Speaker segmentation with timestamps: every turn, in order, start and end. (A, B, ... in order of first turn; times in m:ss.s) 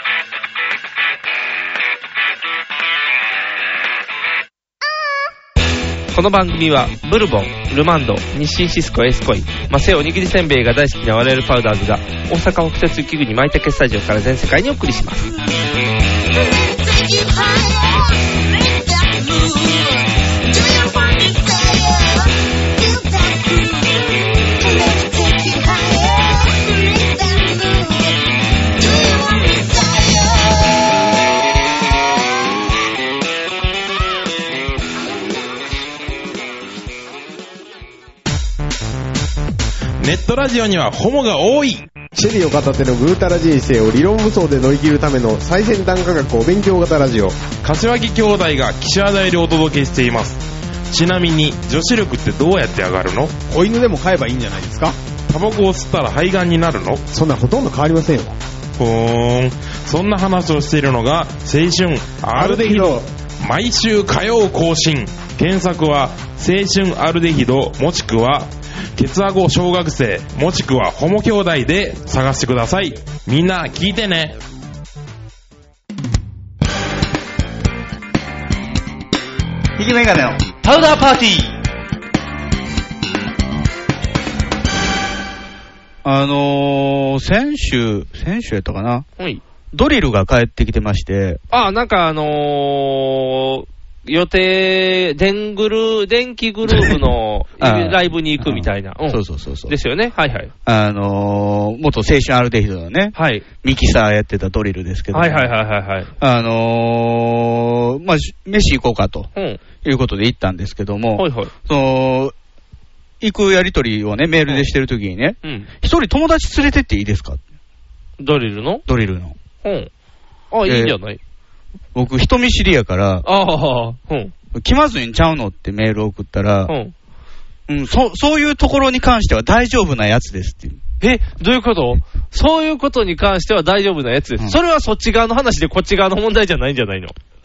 0:06.1-0:15.3 A
0:16.3-0:31.0 B
0:40.0-0:41.9 C
0:42.1-0:47.4 D
0:47.6-0:53.4 C
0:53.5-0:55.0 D
0:55.3-0:57.0 C
0:57.1-0:58.4 D
0:58.8-1:14.4 C
1:02.4-1:03.0 D
1:19.8-1:20.4 E
1:20.6-1:21.5 A
1:26.0-1:29.1 E
1:29.7-1:31.4 E
1:31.5-1:40.5 A
1:36.7-1:37.0 E
1:37.6-1:39.7 E
1:40.6-1:45.5 E
1:43.2-1:43.4 A
1:45.1-1:46.1 A
1:46.2-1:49.3 E
1:49.8-1:52.3 E
1:51.2-1:51.5 A
1:53.2-1:57.4 E
1:55.4-1:55.7 A
1:58.2-1:58.8 A
1:58.9-1:59.4 E
1:59.6-1:59.9 A
2:00.5-2:01.2 A
2:00.7-2:01.0 E
2:02.0-2:03.3 E
2:03.2-2:04.3 A
2:04.5-2:06.7 E
2:06.7-2:06.9 A
2:07.7-2:10.8 E
2:11.0-2:17.1 A